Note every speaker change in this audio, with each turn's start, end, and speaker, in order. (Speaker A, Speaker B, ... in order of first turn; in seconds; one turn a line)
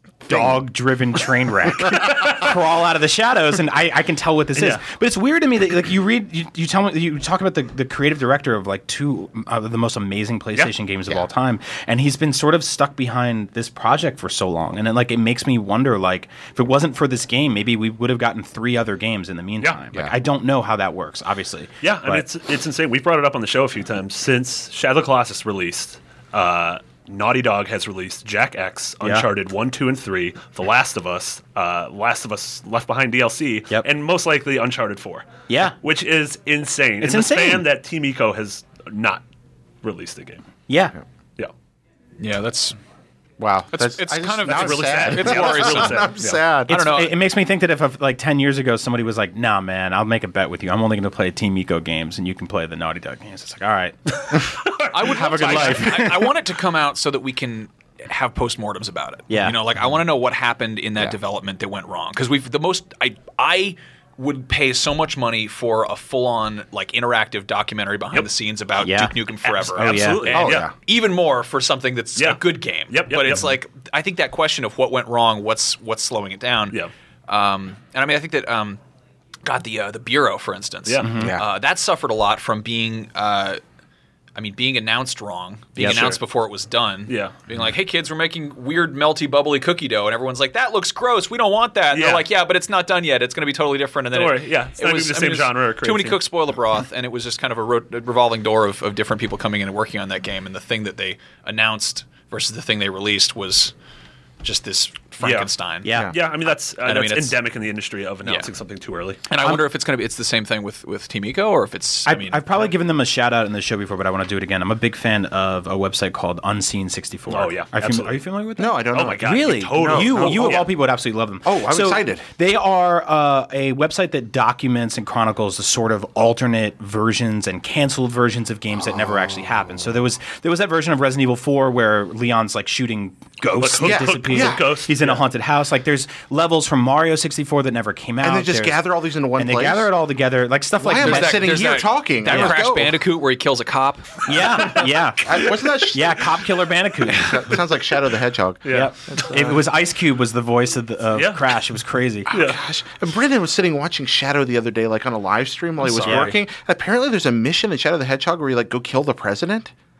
Speaker A: 0.3-22.3
Speaker B: 2.1-2.5
Speaker B: 4.6-4.8
Speaker B: 21.8-39.2
Speaker A: 35.5-35.8
Speaker A: 37.0-37.6
Speaker B: 39.8-40.4
Speaker A: 40.7-41.0
Speaker C: 42.2-42.8
Speaker D: 43.4-46.8
Speaker C: 43.7-46.1
Speaker B: 44.5-46.4
Speaker C: 46.7-47.2
Speaker A: 46.7-56.3
Speaker B: 54.3-56.2
Speaker C: 54.9-78.8
Speaker A: 59.3-59.6
Speaker A: 68.8-69.2
Speaker B: 69.5-70.7
Speaker A: 69.7-70.4
Speaker D: 70.3-70.7
Speaker B: 72.2-73.5
Speaker C: 79.4-83.6
Speaker B: 80.9-81.2
Speaker A: 81.0-81.3
Speaker D: 81.2-81.5
Speaker C: 84.3-103.7
Speaker A: 85.8-86.1
Speaker B: 85.8-86.2
Speaker B: 87.1-87.3
Speaker B: 91.9-92.2
Speaker B: 94.1-96.2
Speaker C: 104.4-105.9
Speaker B: 105.2-105.5
Speaker A: 105.8-106.1
Speaker D: 105.9-106.2
Speaker B: 106.1-109.2
Speaker C: 106.8-107.4
Speaker C: 109.3-112.7
Speaker A: 112.1-138.8
Speaker B: 117.3-118.2
Speaker D: 118.6-120.7
Speaker B: 118.9-120.7
Speaker D: 121.4-122.2
Speaker D: 128.9-129.7
Speaker B: 133.6-135.2
Speaker D: 133.8-134.7
Speaker D: 138.2-139.9
Speaker A: 139.3-141.7
Speaker D: 140.8-143.0
Speaker C: 141.0-144.7
Speaker A: 142.3-142.7
Speaker A: 144.3-147.5
Speaker D: 144.7-146.3
Speaker D: 147.1-149.6
Speaker B: 148.6-148.9
Speaker A: 148.7-152.3
Speaker B: 151.2-151.5
Speaker B: 152.3-152.6
Speaker D: 152.3-159.7
Speaker B: 156.0-156.3
Speaker A: 156.0-156.3